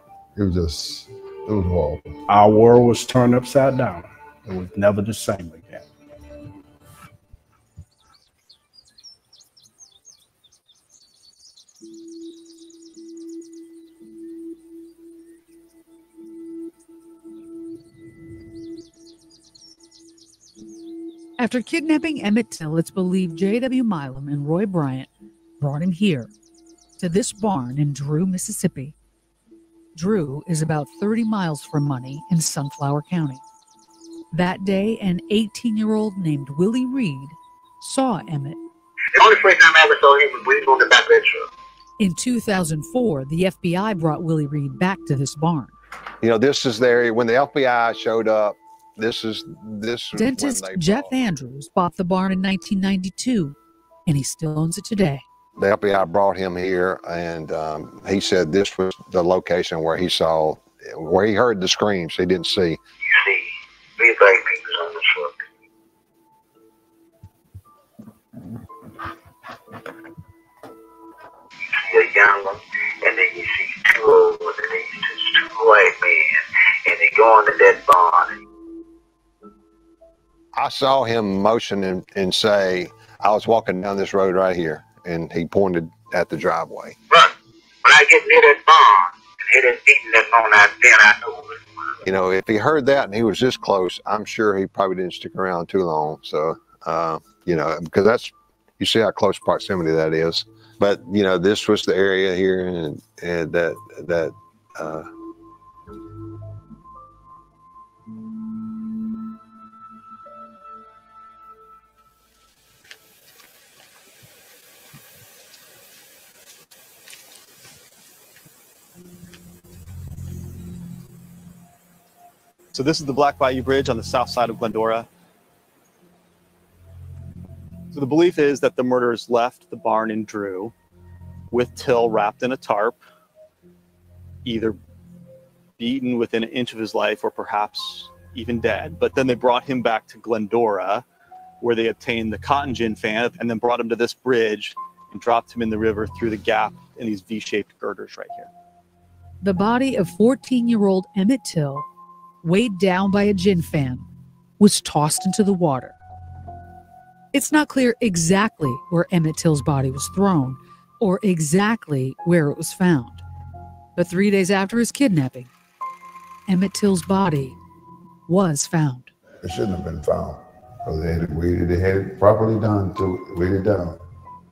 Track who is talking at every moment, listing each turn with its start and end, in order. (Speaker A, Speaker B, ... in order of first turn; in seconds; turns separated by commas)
Speaker A: 0.3-2.2, Speaker B: 2.3-5.9, Speaker C: 21.4-25.1, Speaker C: 25.6-26.3, Speaker C: 27.0-28.9, Speaker C: 29.9-33.4, Speaker C: 34.3-38.6, Speaker D: 39.2-41.5, Speaker C: 42.0-45.8, Speaker E: 46.2-51.1, Speaker C: 50.1-53.6, Speaker C: 54.1-55.2, Speaker E: 55.6-62.8, Speaker D: 63.0-65.4, Speaker D: 71.7-78.3, Speaker E: 80.5-87.0, Speaker D: 87.8-91.6, Speaker E: 92.0-105.1, Speaker F: 122.7-125.1, Speaker F: 127.9-130.7, Speaker F: 131.5-133.0, Speaker F: 134.4-134.8, Speaker F: 135.8-141.0, Speaker F: 141.6-148.5, Speaker C: 149.4-151.9, Speaker C: 152.4-154.1, Speaker C: 154.6-156.0, Speaker C: 157.3-163.2, Speaker C: 164.0-165.5, Speaker C: 166.5-167.6, Speaker C: 168.3-169.1, Speaker A: 169.4-174.0